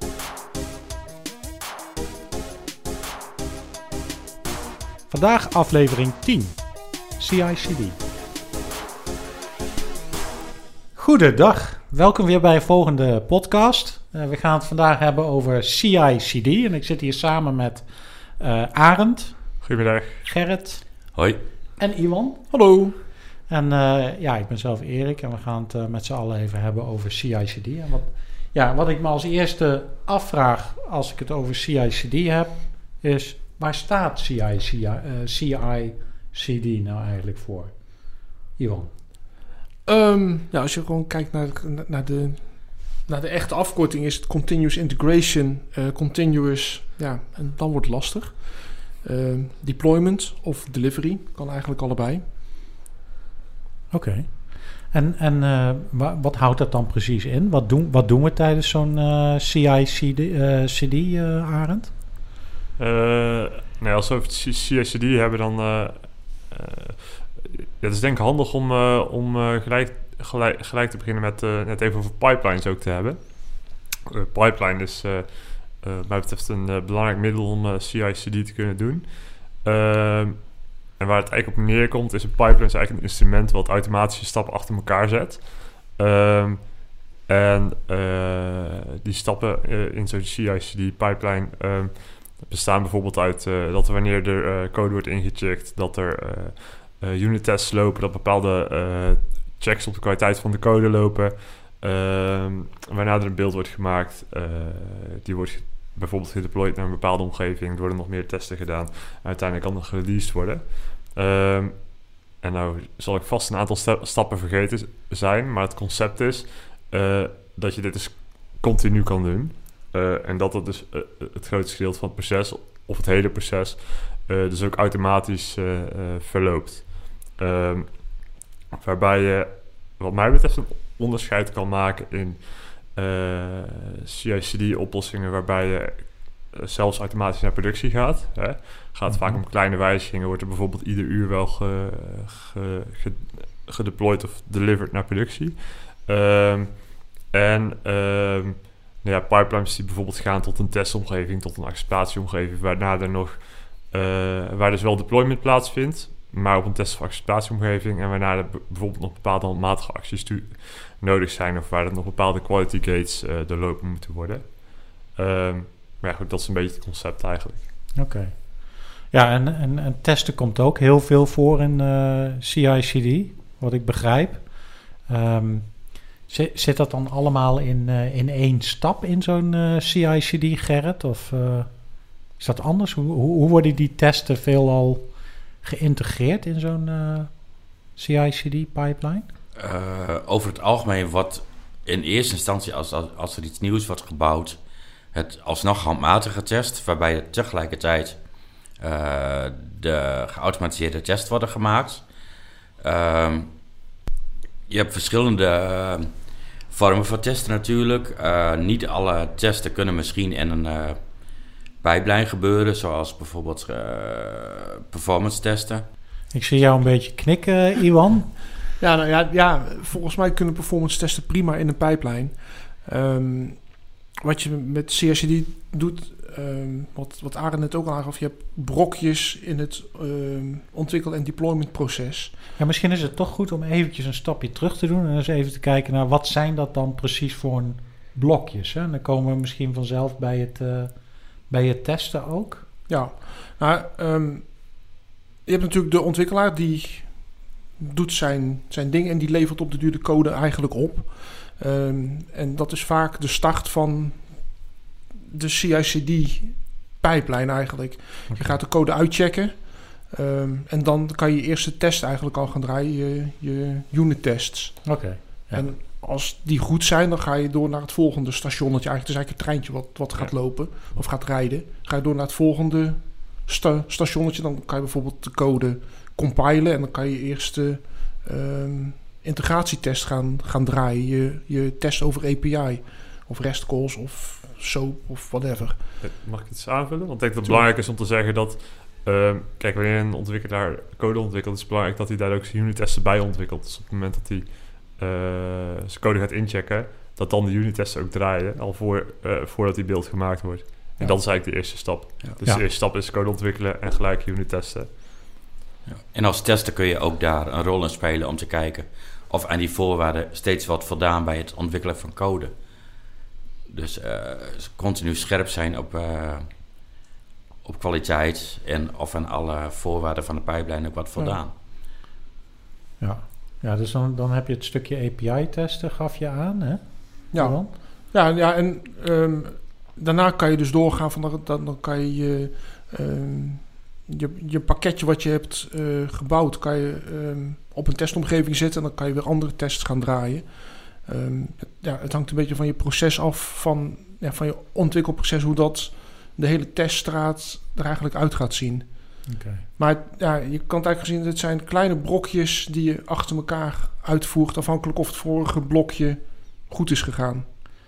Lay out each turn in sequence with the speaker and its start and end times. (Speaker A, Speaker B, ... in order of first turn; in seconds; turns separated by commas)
Speaker A: 5.1-8.0, Speaker A: 10.9-21.1, Speaker B: 19.6-20.3, Speaker C: 21.1-21.4, Speaker A: 21.8-22.6, Speaker D: 22.5-22.9, Speaker A: 23.4-38.9, Speaker D: 39.8-52.2, Speaker A: 53.9-61.9, Speaker B: 62.8-167.7, Speaker A: 139.1-139.4, Speaker A: 167.9-189.3, Speaker C: 189.6-194.6, Speaker C: 195.1-198.2, Speaker C: 198.8-202.1, Speaker C: 202.8-203.6, Speaker C: 204.7-206.1, Speaker C: 206.7-211.0, Speaker C: 211.8-215.8, Speaker A: 216.3-218.4, Speaker D: 218.8-232.4, Speaker A: 232.6-242.7, Speaker D: 242.9-254.7, Speaker D: 255.3-285.9, Speaker A: 258.3-258.6, Speaker A: 264.8-265.7, Speaker B: 270.1-270.6, Speaker B: 286.0-305.4, Speaker C: 305.9-312.6, Speaker C: 313.7-316.5, Speaker C: 317.6-321.5, Speaker A: 323.0-327.7, Speaker D: 327.3-357.4, Speaker A: 349.2-349.6